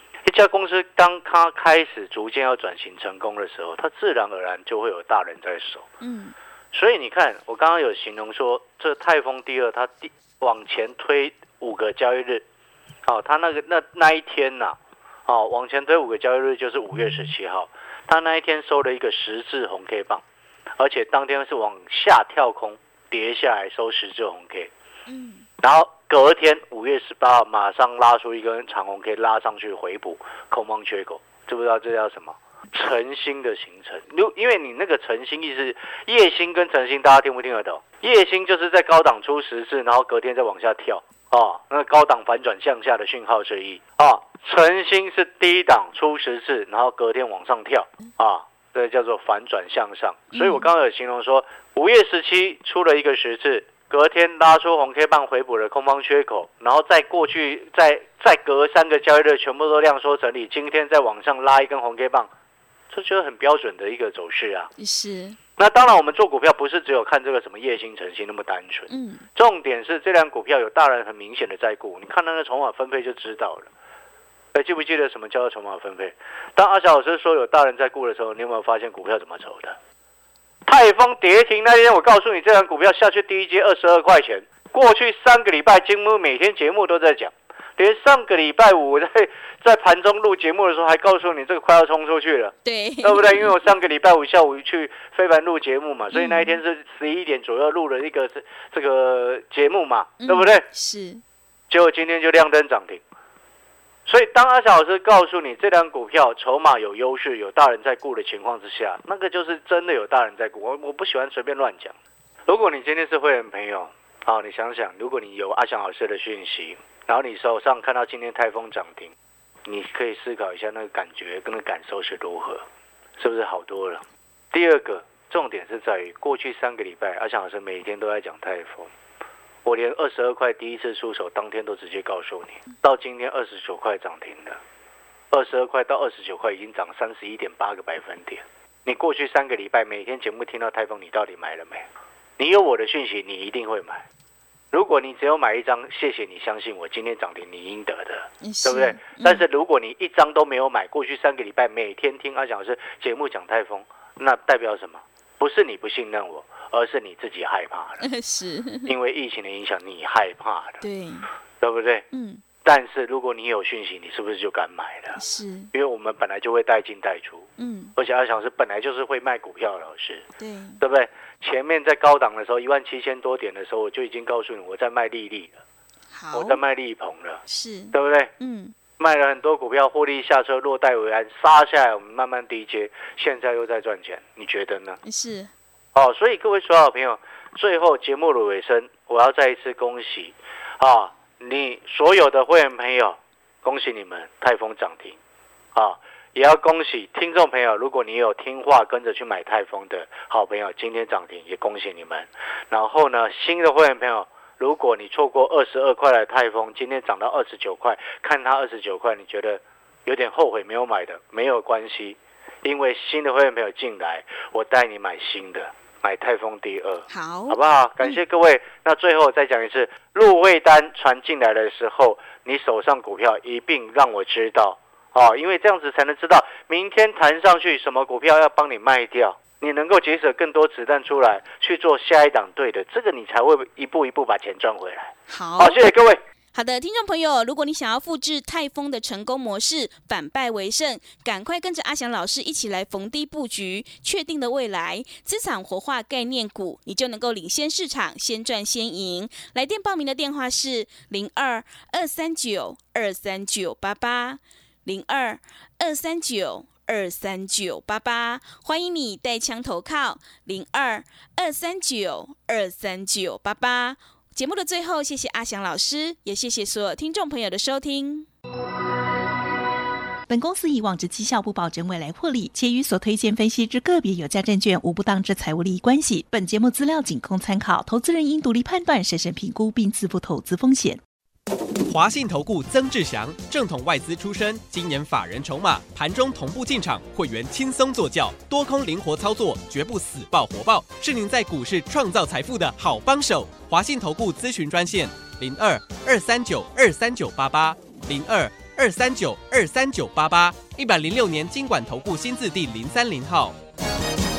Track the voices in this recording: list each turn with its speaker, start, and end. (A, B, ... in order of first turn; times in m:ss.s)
0:00.2-0:05.8 A
0:06.0-0:06.3 B
0:06.7-0:12.4 A
0:13.0-0:20.2 A
0:20.8-0:24.7 A
0:25.1-0:25.5 B
0:25.6-1:02.3 A
0:50.3-0:50.7 B
1:02.9-1:04.7 A
1:04.8-1:05.4 B
1:05.6-1:13.7 A
1:08.9-1:09.2 B
1:14.5-1:19.8 A
1:20.6-1:40.6 A
1:32.6-1:33.7 B
1:36.1-1:36.6 B
1:40.2-1:41.2 B
1:41.7-1:43.0 A
1:44.0-1:52.0 A
1:52.5-1:59.1 A
1:59.6-2:02.6 A
2:03.2-2:08.9 A
2:09.6-2:14.6 A
2:15.3-2:21.9 A
2:22.4-2:24.0 A
2:24.7-2:38.0 A
2:28.4-2:29.4 B
2:38.0-2:38.9 B
2:38.8-2:40.8 A
2:40.8-2:41.3 B
2:41.6-2:42.0 A
2:42.1-2:42.4 B
2:42.6-2:45.2 A
2:45.2-2:45.7 B
2:45.7-2:50.2 A
2:47.6-2:47.9 B
2:50.4-2:50.8 B
2:50.8-2:55.6 A
2:56.1-2:56.6 B
2:56.3-2:57.4 A
2:57.5-2:58.7 B
2:57.9-2:58.3 A
2:59.0-3:05.0 A
3:05.0-3:05.5 B
3:05.9-3:15.2 A
3:15.7-3:56.2 A
3:37.1-3:38.2 B
3:55.3-3:55.8 B
3:56.5-4:28.3 B
4:30.3-4:41.0 C
4:41.9-5:03.6 D